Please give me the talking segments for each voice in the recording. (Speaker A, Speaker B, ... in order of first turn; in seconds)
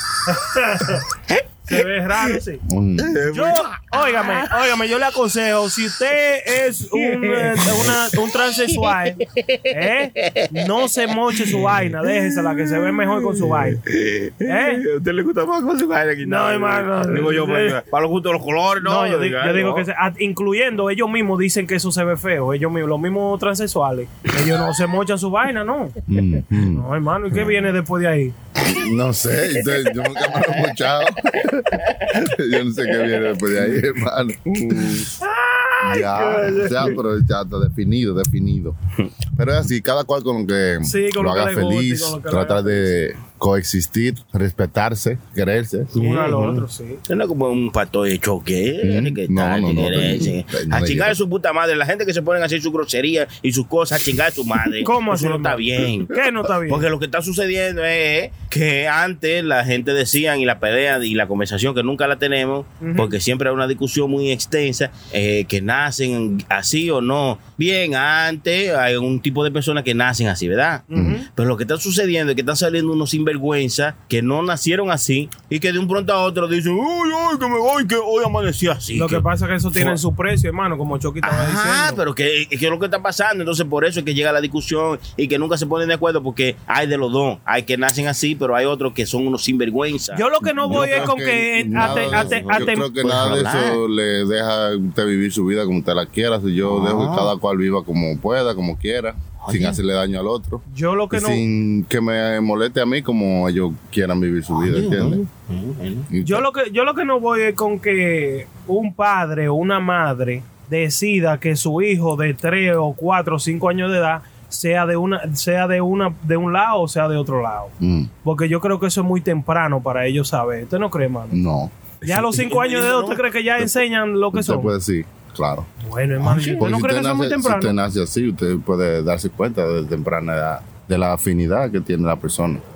Speaker A: 0.2-1.1, 1.6-2.6, 3.3-13.8, 14.4-14.8, 16.2-17.8, 18.8-26.0, 26.7-28.3, 35.2-37.0, 40.8-42.9, 46.0-47.0, 54.7-56.9, 62.8-63.1, 70.9-71.3, 78.9-82.0, 90.1-92.9, 100.7-101.4, 106.2-117.7, 118.2-121.4, 122.0-124.7, 125.8-127.8
Speaker B: 1.3-1.9, 3.0-4.7, 6.9-19.9, 29.7-30.7, 31.3-32.3, 32.8-33.8, 34.5-35.1, 45.9-80.0, 81.2-91.1, 91.7-93.8, 96.6-97.3, 99.4-99.8, 104.5-106.1, 122.0-123.2, 126.2-126.7
Speaker C: 2.6-3.2, 26.1-26.9, 28.6-35.0, 35.8-38.8, 39.3-45.9, 48.8-51.2, 70.9-71.2, 90.4-105.2, 106.1-106.4, 117.8-118.1, 121.3-121.7, 124.3-125.7, 126.6-132.6